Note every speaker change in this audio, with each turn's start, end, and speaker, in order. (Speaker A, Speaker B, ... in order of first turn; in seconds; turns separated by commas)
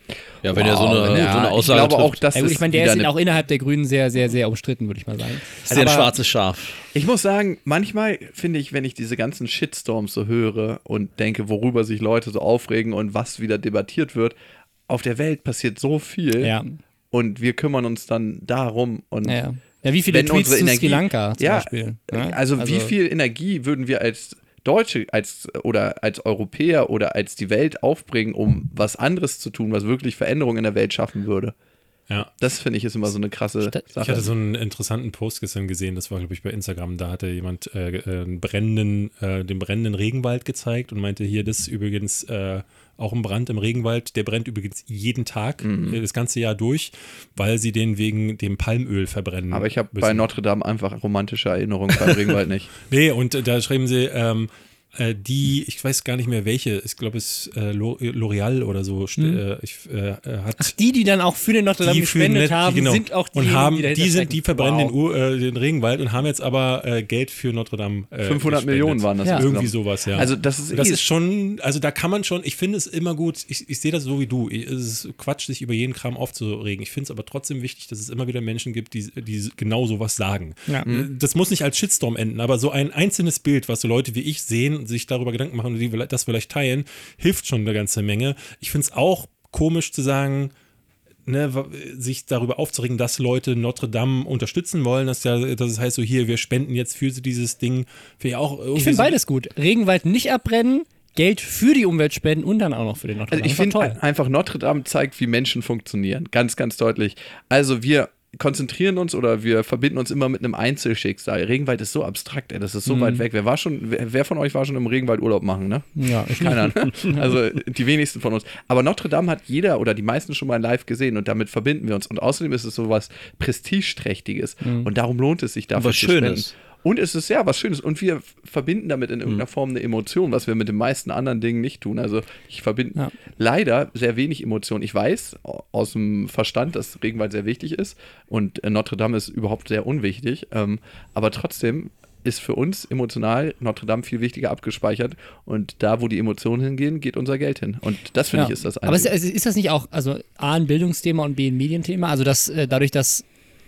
Speaker A: 0.4-2.2, Speaker B: 0.4-3.1, Speaker C: 2.3-6.1, Speaker A: 5.7-6.9, Speaker B: 5.7-6.0, Speaker B: 6.9-14.3, Speaker B: 14.9-16.5, Speaker C: 16.4-16.8, Speaker B: 17.1-19.4, Speaker C: 19.2-22.9, Speaker B: 20.1-31.5, Speaker B: 32.3-34.3, Speaker D: 33.9-50.2, Speaker B: 45.6-46.0, Speaker B: 49.5-52.7, Speaker D: 52.9-60.7, Speaker C: 60.6-64.9, Speaker D: 61.8-90.5, Speaker B: 68.2-71.0, Speaker D: 91.2-99.2, Speaker C: 98.7-104.0, Speaker B: 103.3-149.1, Speaker C: 112.8-113.2, Speaker C: 116.0-117.3, Speaker C: 124.6-124.9, Speaker A: 125.8-126.5, Speaker C: 148.3-153.2